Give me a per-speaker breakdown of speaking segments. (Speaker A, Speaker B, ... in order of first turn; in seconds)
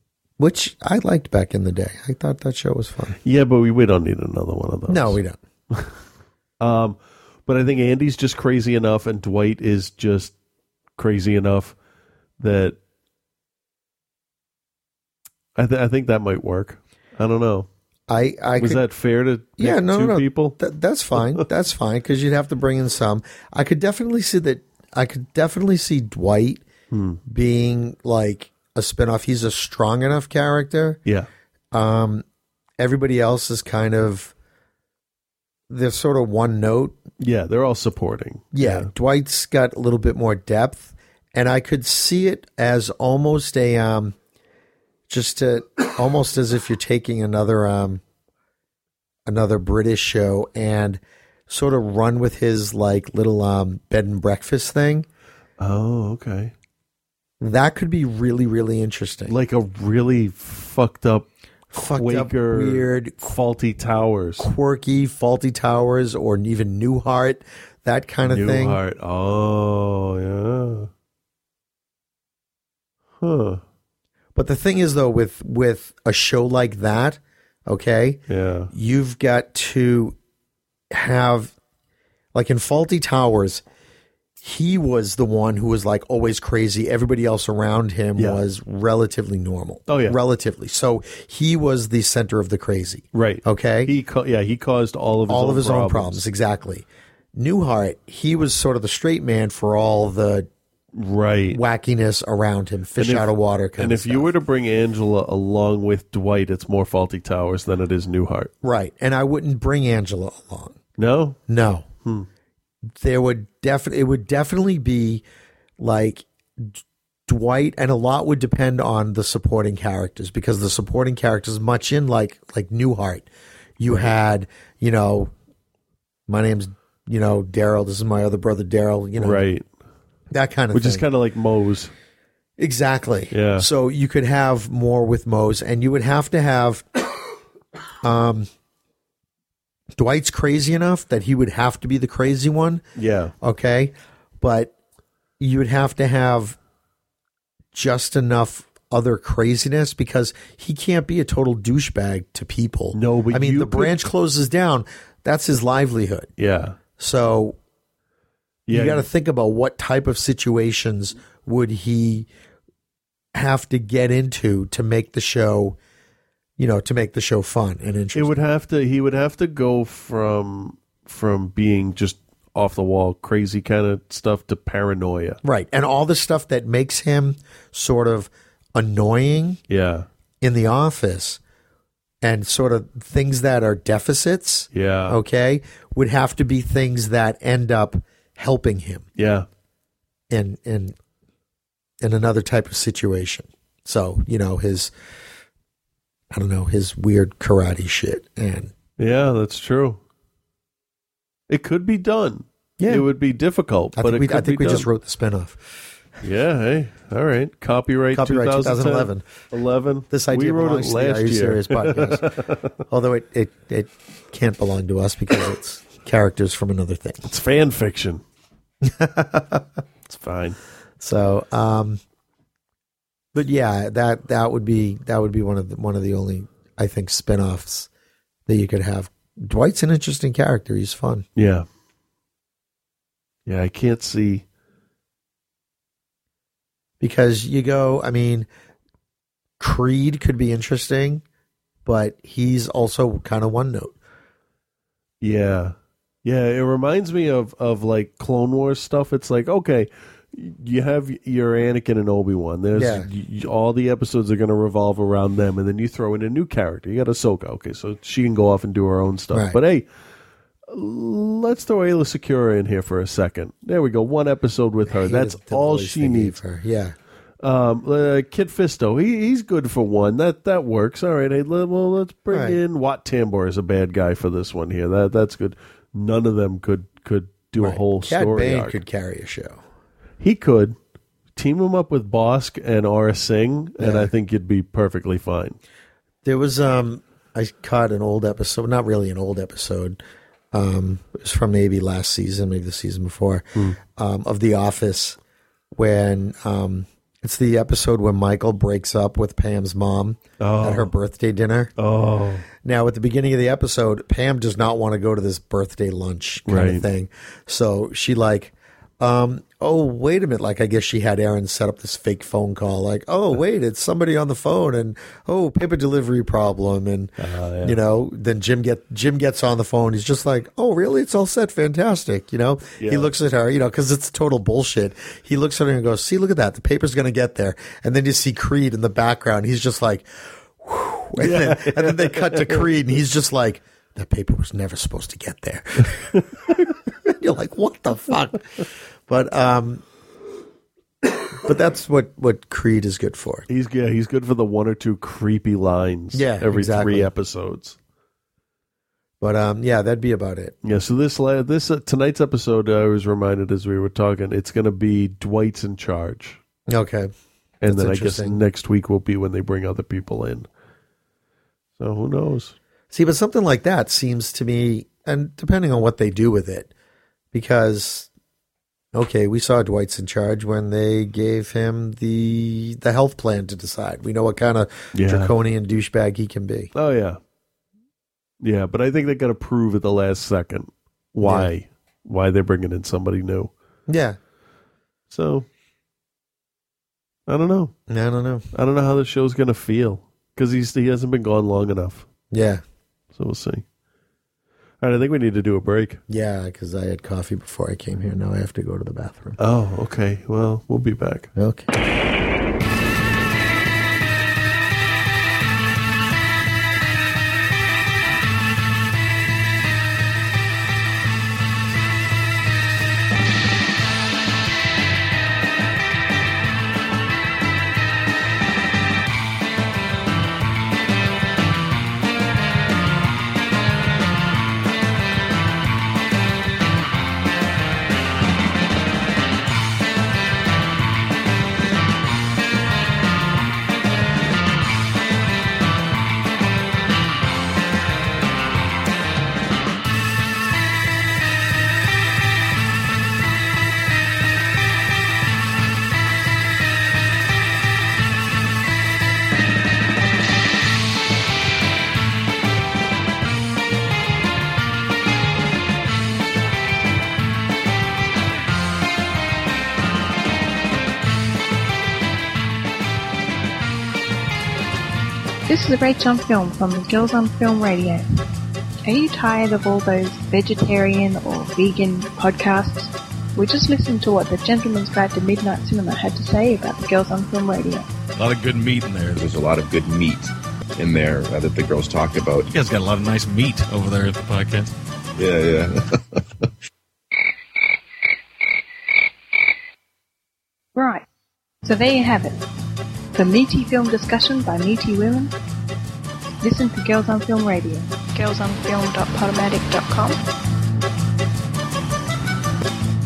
Speaker A: 0.4-3.2, 4.9-5.4, 18.1-18.8, 19.6-26.6, 27.2-31.0, 31.7-32.2, 32.8-34.3, 35.7-37.0, 38.5-44.1, 45.1-48.0, 49.2-55.1, 57.4-59.3, 61.7-63.3, 64.4-68.8, 74.3-78.2, 78.7-80.2, 80.9-81.5, 82.3-83.6, 84.4-93.9, 95.3-100.5, 101.5-104.3, 108.6-110.8, 111.5-111.9, 112.9-115.2, 115.8-125.3, 126.3-129.4, 130.3-131.0, 132.6-136.8, 138.0-138.5, 139.9-142.8, 143.4-144.7, 145.4-146.6, 147.7-156.3, 157.0-157.6, 158.7-162.3, 163.3-165.8, 166.6-168.4, 175.4-179.6, 180.4-181.4, 182.2-189.0, 190.3-190.9, 192.0-194.9, 196.3-198.7, 202.8-203.1, 203.9-205.6, 208.1-209.2, 210.1-212.3, 212.9-217.2, 218.8-219.7, 221.0-222.0, 223.3-227.9, 228.5-231.2, 237.0-238.5, 239.6-241.2, 241.8-244.0, 252.7-253.1, 259.3-259.6, 264.9-266.9, 272.3-272.6, 277.6-279.6, 283.8-284.1, 286.2-290.0, 290.5-295.2, 295.7-301.7, 302.6-336.1, 337.1-338.4, 339.1-339.8, 341.4-343.5, 346.1-347.1, 349.2-350.5, 356.7-357.1, 357.6-358.4, 362.9-366.7, 367.3-368.1, 368.9-376.7, 381.2-381.5, 383.9-384.2, 387.9-388.5, 392.3-392.6, 396.1-399.4, 401.3-401.7
Speaker B: 3.2-5.2, 6.6-10.3, 11.0-11.7, 12.4-12.8, 15.6-17.7, 18.6-20.6, 21.2-21.4, 26.9-27.2, 37.2-38.9, 55.6-56.5, 59.3-64.5, 68.2-70.9, 73.2-73.6, 78.3-78.7, 88.2-88.4, 89.9-90.2, 93.1-96.2, 100.9-101.6, 103.0-108.5, 111.0-111.4, 129.2-129.7, 130.7-131.9, 133.3-133.7, 142.9-143.3, 152.9-154.1, 156.4-156.8, 158.7-159.1, 168.1-175.4, 179.7-180.1, 184.7-185.2, 189.2-189.4, 199.0-200.0, 201.5-204.9, 206.2-212.7, 217.2-218.2, 220.1-220.6, 231.3-231.7, 233.4-234.4, 245.2-259.9, 260.7-266.4, 267.4-278.8, 280.2-280.8, 281.4-285.6, 300.4-300.9, 301.8-302.4, 306.5-306.8, 317.2-317.8, 322.8-323.1, 331.2-332.8, 343.5-347.8, 350.6-356.4, 357.6-360.5, 361.8-362.5, 374.9-375.3, 376.7-377.2, 378.4-383.5, 385.1-385.5, 387.3-387.7, 388.5-392.1, 393.1-393.6, 394.8-396.0, 399.4-401.3
Speaker C: 465.5-468.1, 468.8-477.9, 490.8-491.0, 491.6-492.4, 493.1-495.3, 496.4-500.2
Speaker D: 478.2-479.2, 482.5-484.7
Speaker E: 479.1-482.5, 485.2-486.2